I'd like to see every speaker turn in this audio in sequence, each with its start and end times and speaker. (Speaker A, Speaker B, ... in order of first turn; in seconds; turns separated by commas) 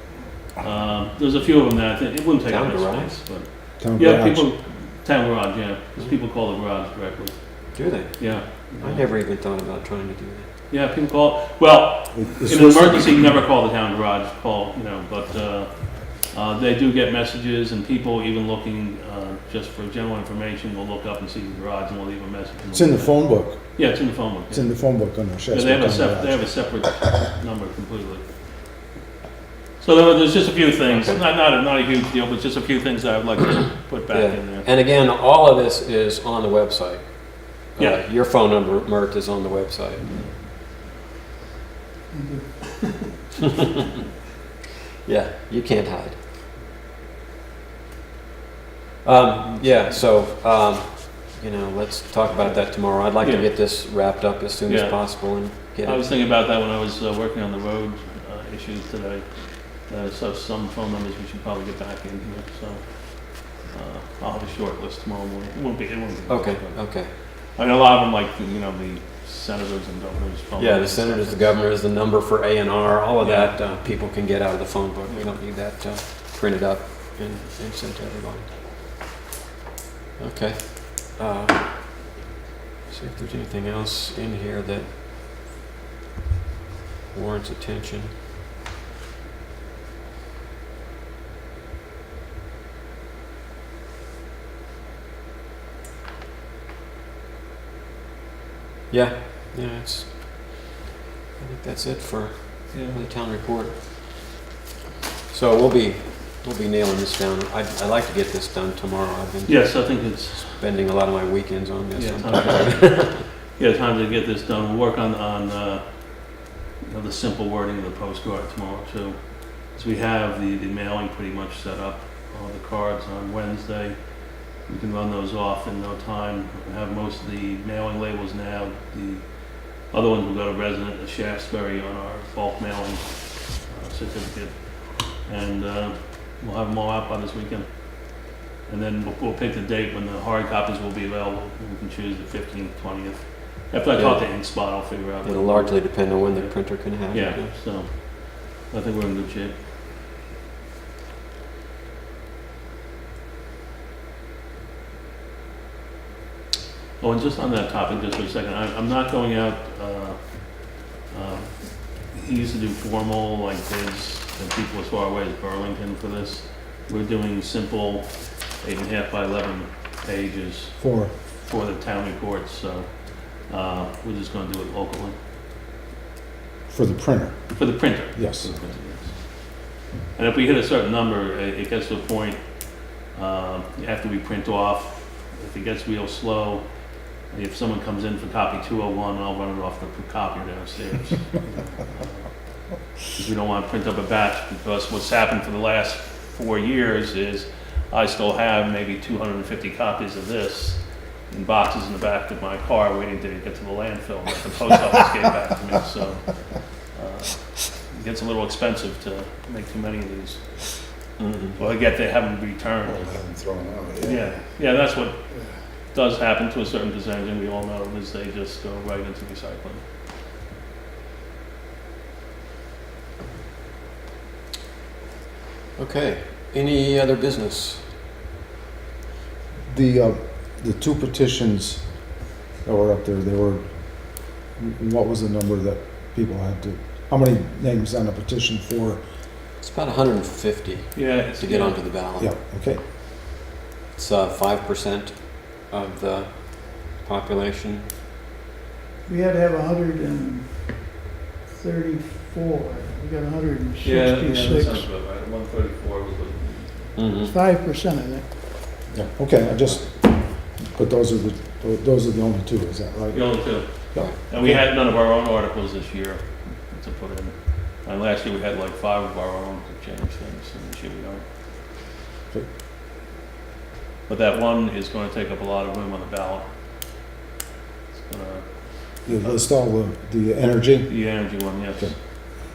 Speaker A: 0.6-9.1, Speaker B: 2.5-3.3, Speaker C: 3.8-4.5, Speaker B: 7.7-10.5, Speaker A: 10.7-24.8, Speaker C: 12.1-13.2, Speaker C: 22.7-26.7, Speaker A: 25.5-28.3, Speaker A: 29.8-34.7, Speaker B: 30.9-31.2, Speaker B: 34.1-40.2, Speaker A: 37.8-38.0, Speaker D: 42.1-43.2, Speaker B: 45.0-46.2, Speaker B: 49.0-56.1, Speaker A: 52.4-53.5, Speaker A: 54.6-71.5, Speaker B: 66.3-67.1, Speaker B: 70.6-78.5, Speaker A: 73.2-73.6, Speaker A: 75.1-75.3, Speaker B: 80.2-82.2, Speaker B: 82.9-84.9, Speaker B: 87.1-88.1, Speaker B: 98.9-100.7, Speaker B: 101.4-103.8, Speaker A: 102.7-103.0, Speaker B: 105.3-113.2, Speaker A: 109.5-110.6, Speaker A: 111.9-149.6, Speaker B: 143.9-147.6, Speaker A: 157.0-175.2, Speaker C: 170.8-171.1, Speaker C: 176.7-178.5, Speaker A: 177.6-186.7, Speaker A: 187.2-210.9, Speaker B: 211.2-211.6, Speaker A: 211.6-213.2, Speaker C: 212.8-214.4, Speaker A: 214.0-215.2, Speaker A: 215.9-219.8, Speaker B: 225.8-227.9, Speaker C: 229.7-239.0, Speaker B: 239.6-242.3, Speaker A: 240.9-241.8, Speaker C: 242.2-242.8, Speaker B: 243.9-247.9, Speaker D: 249.1-254.8, Speaker A: 253.8-257.0, Speaker B: 256.9-257.3, Speaker D: 257.2-258.4, Speaker C: 258.9-264.7, Speaker A: 263.1-271.2, Speaker A: 274.1-276.5, Speaker A: 277.9-279.5, Speaker C: 279.0-281.9, Speaker A: 280.9-281.9